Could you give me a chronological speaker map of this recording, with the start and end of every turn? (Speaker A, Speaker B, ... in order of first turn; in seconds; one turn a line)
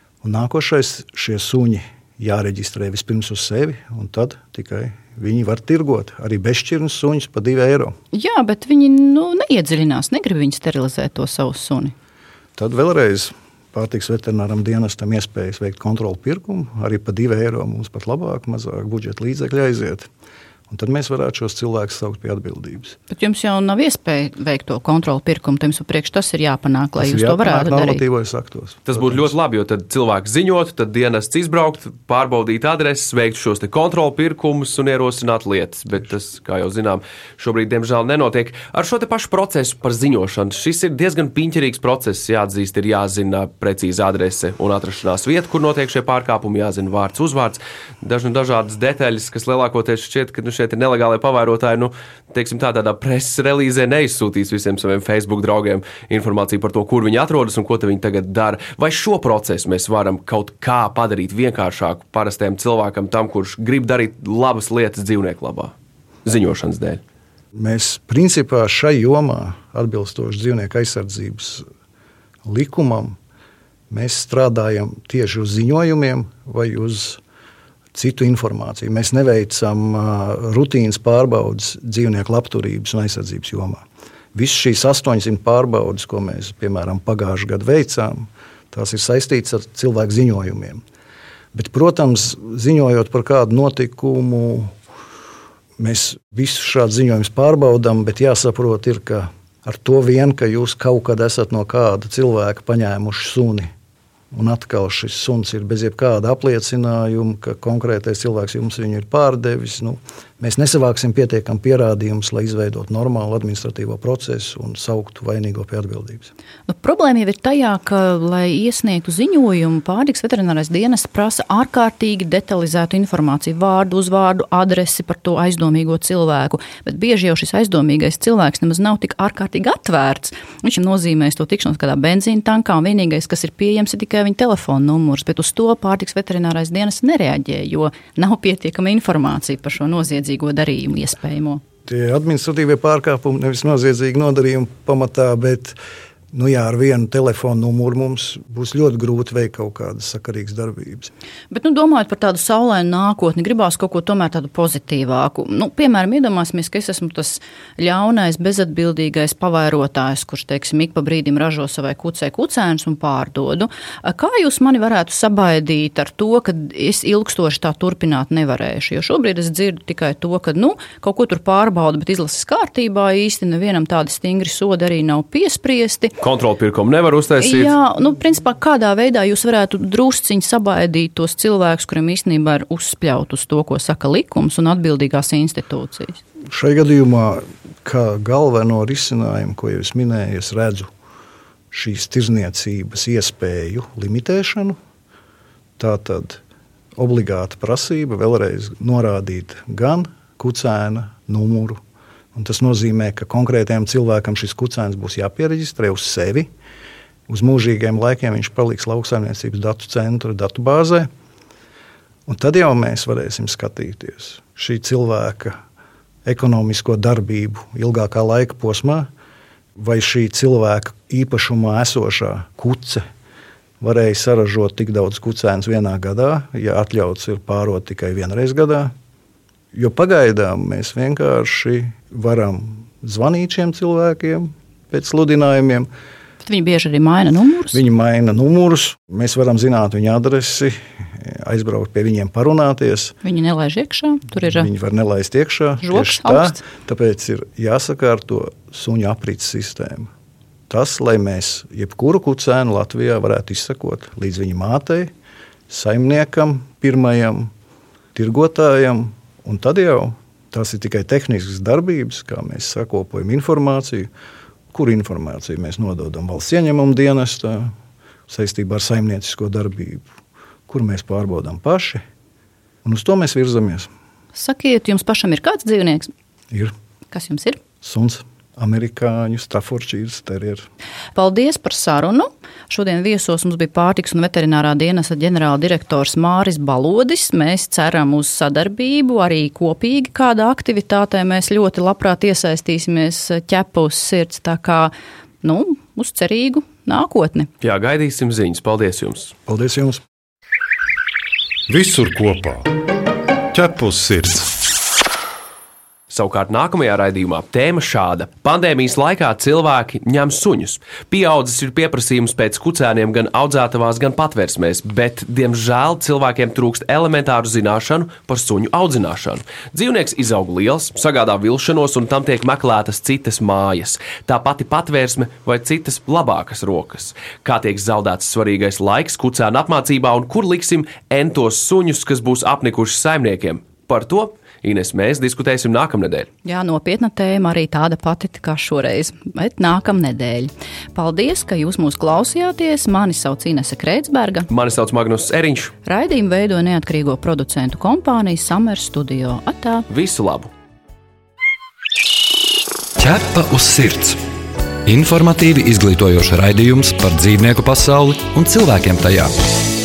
Speaker A: 0.2-8.0
Speaker B: 8.1-11.9
Speaker A: 12.6-20.1
Speaker A: 20.7-23.0
Speaker B: 23.1-28.0
Speaker A: 27.0-29.3
Speaker C: 28.9-65.7
Speaker C: 66.2-67.0
Speaker A: 67.5-71.7
Speaker A: 72.5-73.2
Speaker A: 73.9-77.2
Speaker A: 77.9-83.8
Speaker A: 84.3-90.8
Speaker A: 91.5-94.8
Speaker A: 95.8-103.7
Speaker A: 104.3-116.3
Speaker B: 116.7-141.6
Speaker A: 141.9-145.8
Speaker A: 146.3-151.1
Speaker B: 151.5-176.1
Speaker C: 176.2-177.7
Speaker B: 177.4-186.2
Speaker A: 186.5-190.9
Speaker A: 191.7-194.8
Speaker A: 195.8-196.4
Speaker A: 196.9-201.8
Speaker A: 202.3-206.5
Speaker A: 207.3-211.1
Speaker A: 212.3-215.6
Speaker A: 216.2-219.1
Speaker A: 219.8-223.0
Speaker A: 223.8-228.9
Speaker A: 229.7-235.9
Speaker B: 236.4-237.8
Speaker A: 237.7-243.2
Speaker B: 243.2-244.7
Speaker A: 244.4-250.1
Speaker B: 245.8-246.6
Speaker A: 250.7-255.1
Speaker A: 255.7-257.5
Speaker A: 258.1-264.1
Speaker A: 264.7-267.7
Speaker A: 268.3-270.1
Speaker A: 270.7-272.0
Speaker A: 272.8-273.9
Speaker B: 274.3-276.1
Speaker B: 277.1-277.6
Speaker A: 277.8-280.7
Speaker B: 281.1-297.5
Speaker C: 297.6-299.3
Speaker A: 299.5-300.0
Speaker D: 301.7-302.7
Speaker D: 303.5-304.5
Speaker C: 306.1-336.3
Speaker B: 336.4-344.5
Speaker C: 344.5-345.7
Speaker B: 345.9-349.9
Speaker C: 349.9-350.5
Speaker E: 353.0-354.2
Speaker E: 354.9-359.4